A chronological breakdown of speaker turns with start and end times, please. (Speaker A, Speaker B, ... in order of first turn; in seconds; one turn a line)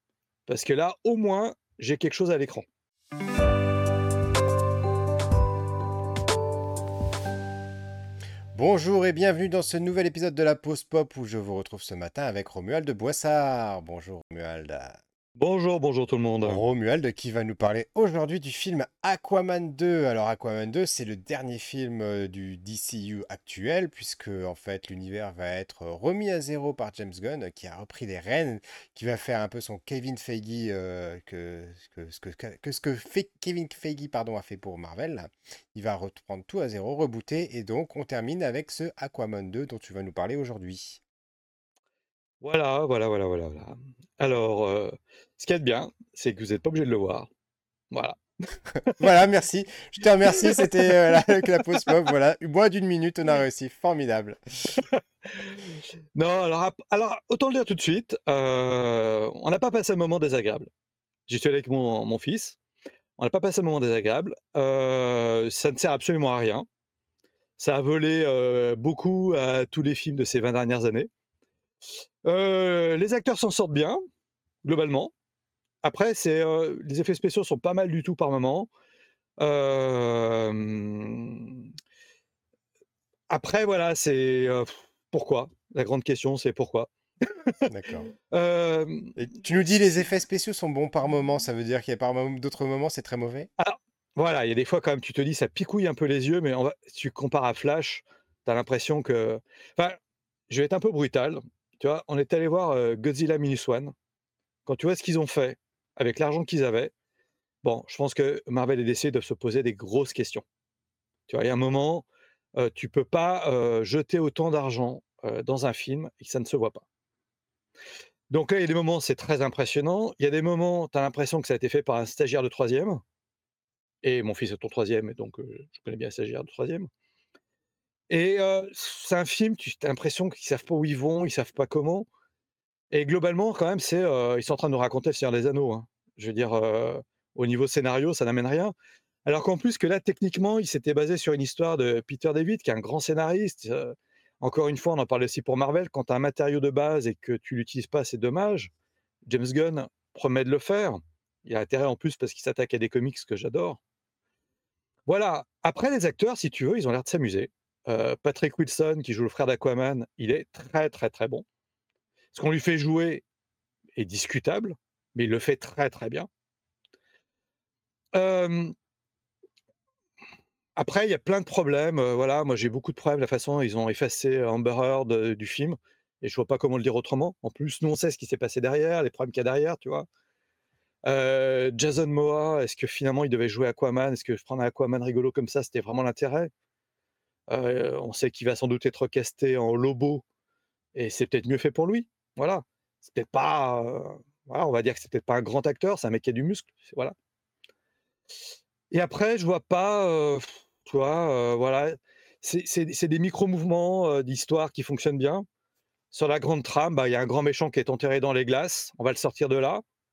Speaker A: 0.5-2.6
Speaker B: 8.5-15.0
Speaker A: 15.4-16.6
Speaker B: 16.4-41.0
Speaker A: 42.4-47.3
Speaker A: 47.9-48.2
Speaker B: 48.9-54.8
Speaker A: 54.8-60.7
Speaker A: 61.3-62.6
Speaker A: 63.2-66.7
Speaker A: 67.6-71.1
Speaker A: 72.2-74.0
Speaker A: 74.6-75.1
Speaker A: 75.8-78.7
Speaker A: 79.4-81.6
Speaker A: 83.3-87.7
Speaker B: 87.7-88.1
Speaker A: 88.3-89.2
Speaker B: 89.2-93.5
Speaker A: 93.6-100.0
Speaker A: 100.5-103.9
Speaker A: 104.7-106.9
Speaker A: 107.6-110.4
Speaker A: 111.3-116.8
Speaker A: 118.3-123.0
Speaker A: 124.0-126.9
Speaker A: 128.1-132.1
Speaker A: 132.9-138.7
Speaker A: 139.2-148.7
Speaker A: 149.3-153.8
Speaker A: 155.1-161.4
Speaker A: 162.3-163.2
Speaker A: 163.9-166.3
Speaker A: 168.1-168.7
Speaker A: 170.8-180.1
Speaker A: 181.1-186.5
Speaker A: 187.5-190.2
Speaker A: 190.9-197.1
Speaker A: 198.9-205.4
Speaker A: 206.1-209.8